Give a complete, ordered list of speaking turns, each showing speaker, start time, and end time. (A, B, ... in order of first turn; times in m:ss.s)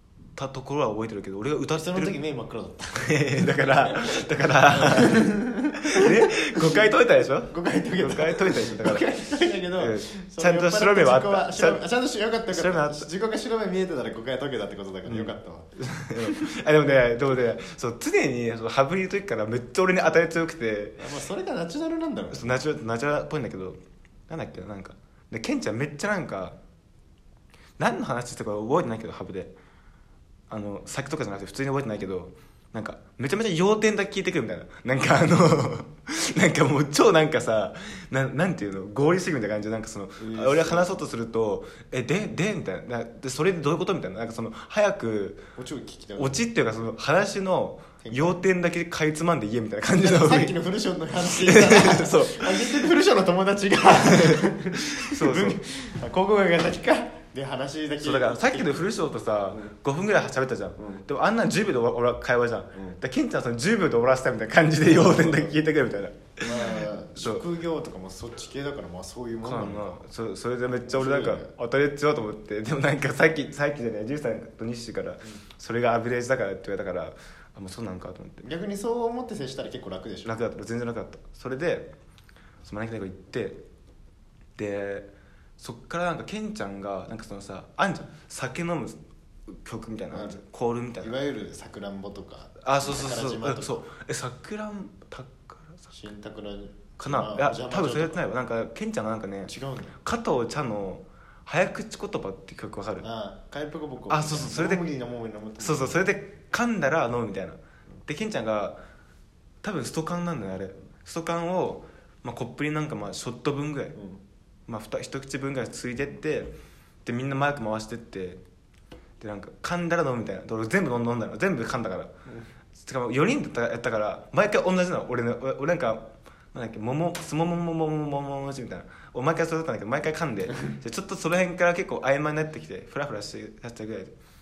0:00.4-0:02.2 A
0:01.8-0:04.2 B
0:02.9-0:09.1 A
0:04.7-0:06.8 B
0:07.5-0:16.5 B
0:09.8-0:11.8 A
0:12.5-0:13.1 A
0:15.1-0:21.1 A
0:21.0-0:22.6 B
0:22.3-0:26.6 A
0:27.8-0:29.6 A
0:30.5-0:45.5 A
0:40.2-0:40.9 B
0:45.6-0:46.4 B
0:46.2-0:50.6 A
0:48.0-0:48.4 B
0:49.9-0:58.9 B
0:51.2-0:52.9 A
0:54.0-0:55.6 A
0:58.0-1:07.4 A
1:00.8-1:01.1 B
1:02.7-1:03.0 B
1:04.8-1:05.6 B
1:06.4-1:10.1 B
1:09.4-1:18.4 A
1:10.7-1:11.5 B
1:18.4-1:20.4 B
1:20.2-1:21.9 A
1:22.6-1:23.6 A
1:24.6-1:31.2 A
1:30.1-1:30.4 B
1:31.0-1:33.8 B
1:32.6-1:35.9 A
1:35.9-1:38.3 B
1:37.0-1:43.1 A
1:39.5-1:40.0 B
1:43.0-1:46.1 B
1:44.1-1:44.9 A
1:45.6-1:48.8 A
1:49.6-1:54.0 A
1:54.0-1:54.2 B
1:54.7-1:58.4 A
1:59.2-2:02.1 A
2:02.8-2:14.1 A